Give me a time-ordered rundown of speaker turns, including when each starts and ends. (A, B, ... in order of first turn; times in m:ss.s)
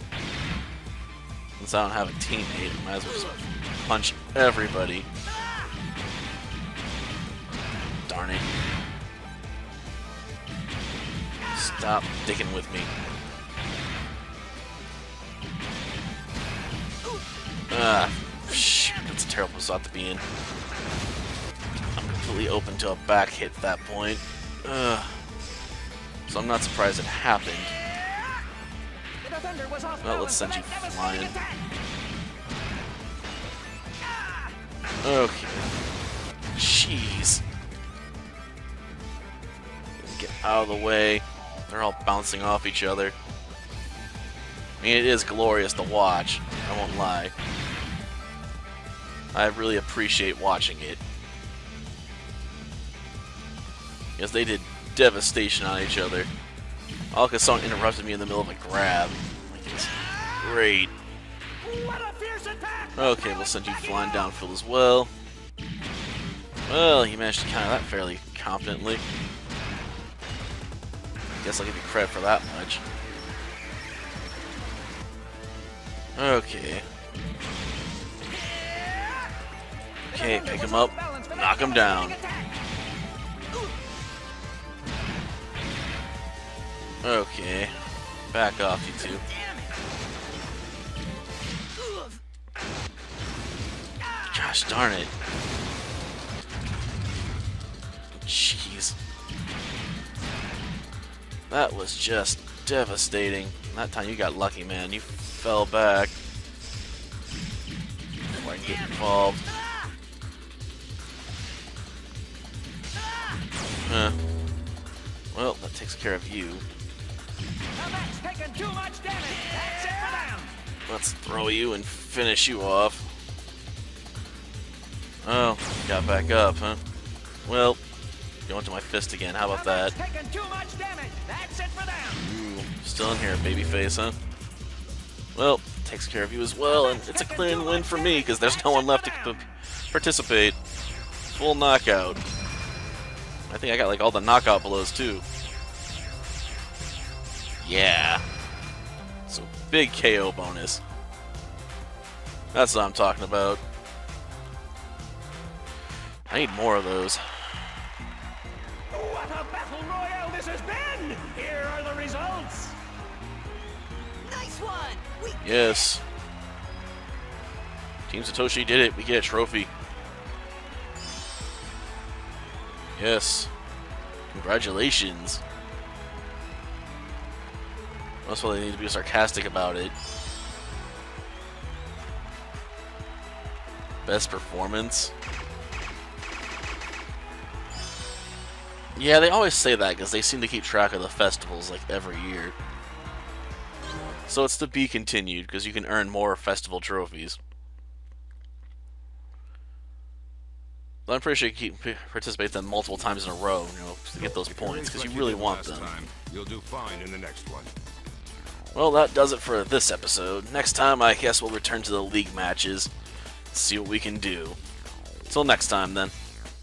0:01.6-0:05.1 A
0:08.1-0:08.4 A
0:11.5-0:12.9 A
0:17.7-0:20.2 A
0:21.9-0:25.2 A
0:26.3-0:27.7 A
0:29.2-0:31.5 B
0:30.0-0:31.4 A
0:35.0-0:35.7 A
0:36.5-0:37.4 A
0:40.0-0:43.2 A
0:44.8-0:47.3 A
0:49.3-0:51.0 A
0:54.2-0:56.3 A
0:57.1-1:00.9 A
1:01.6-1:03.0 B
1:03.0-1:05.1 A
1:06.6-1:09.0 A
1:11.4-1:12.8 A
1:16.2-1:16.9 A
1:20.1-1:22.2 A
1:20.1-1:22.4 B
1:27.0-1:27.8 A
1:28.3-1:29.2 A
1:29.2-1:29.8 C
1:34.3-1:35.1 A
1:38.2-1:39.0 A
1:41.5-1:46.1 A
1:48.4-1:49.4 A
1:53.8-1:54.2 A
1:55.3-1:56.6 A
1:57.7-2:00.5 B
2:00.9-2:03.1 A
2:05.2-2:06.8 A
2:07.4-2:07.8 A
2:08.5-2:09.9 A
2:09.5-2:12.2 B
2:12.1-2:14.2 A
2:15.3-2:20.6 A
2:17.0-2:19.0 B
2:21.3-2:22.2 A
2:23.5-2:25.2 A
2:27.6-2:28.2 A
2:29.3-2:30.8 A
2:32.5-2:33.6 A
2:36.3-2:37.6 A
2:38.9-2:42.8 B
2:44.2-2:45.7 C
2:45.4-2:46.0 A
2:48.1-2:49.7 A
2:53.0-2:53.5 A
2:54.3-2:55.4 A
2:58.2-2:59.9 A
3:04.0-3:05.1 A
3:08.9-3:12.5 A
3:14.3-3:17.4 A
3:21.1-3:25.9 A
3:24.2-3:27.7 D
3:28.7-3:32.9 A
3:33.5-3:34.6 A
3:35.3-3:36.1 A